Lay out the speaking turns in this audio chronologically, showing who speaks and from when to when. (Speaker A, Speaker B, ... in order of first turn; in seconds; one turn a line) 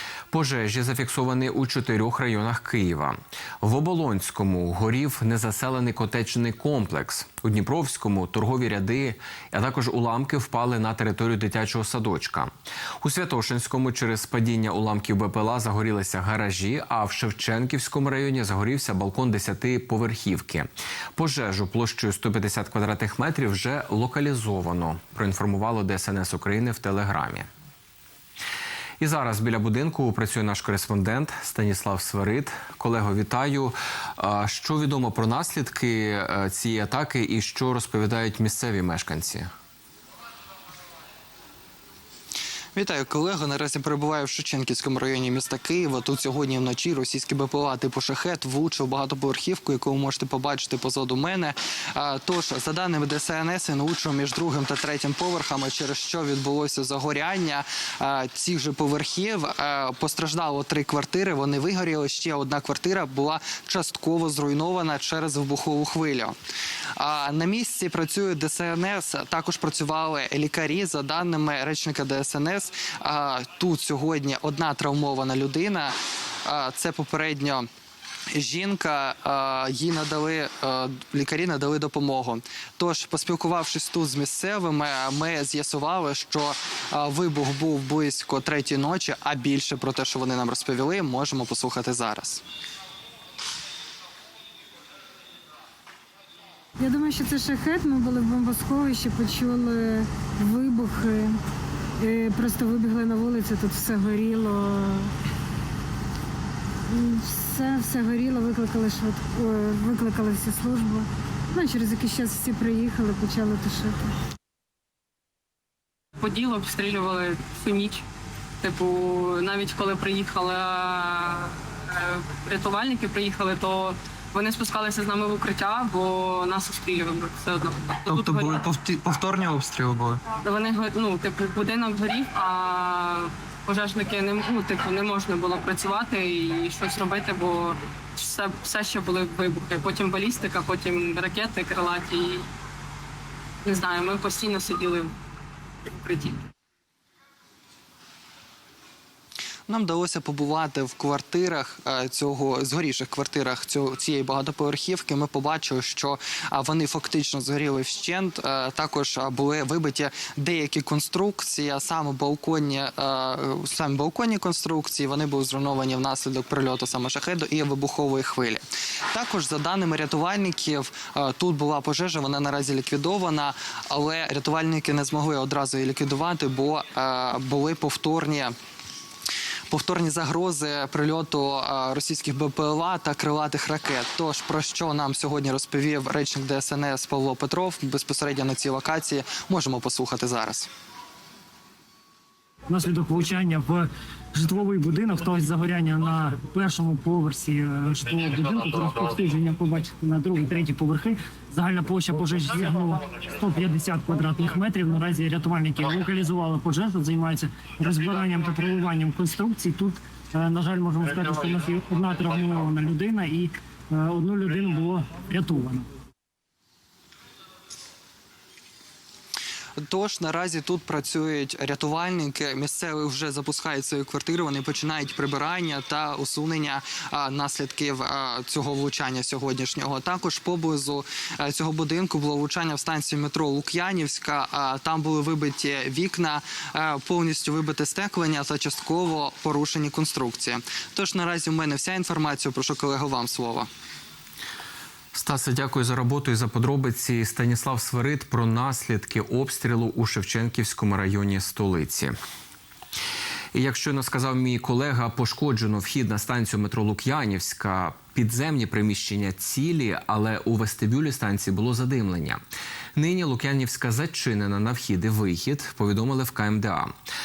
Speaker A: 0.3-27.5
Speaker A: 29.0-39.5
Speaker B: 42.8-66.4
Speaker B: 67.0-77.7
Speaker B: 78.3-92.4
Speaker C: 96.8-101.4
Speaker C: 102.0-105.1
Speaker C: 106.9-114.1
Speaker D: 116.2-118.0
Speaker D: 118.6-128.6
Speaker B: 128.1-130.2
Speaker D: 130.4-142.5
Speaker D: 143.6-145.2
Speaker D: 145.9-146.4
Speaker B: 149.7-178.5
Speaker B: 179.7-190.7
Speaker E: 192.7-215.9
Speaker B: 219.8-243.7
Speaker A: 245.1-252.2
Speaker A: 253.5-262.4
Speaker A: 263.0-266.9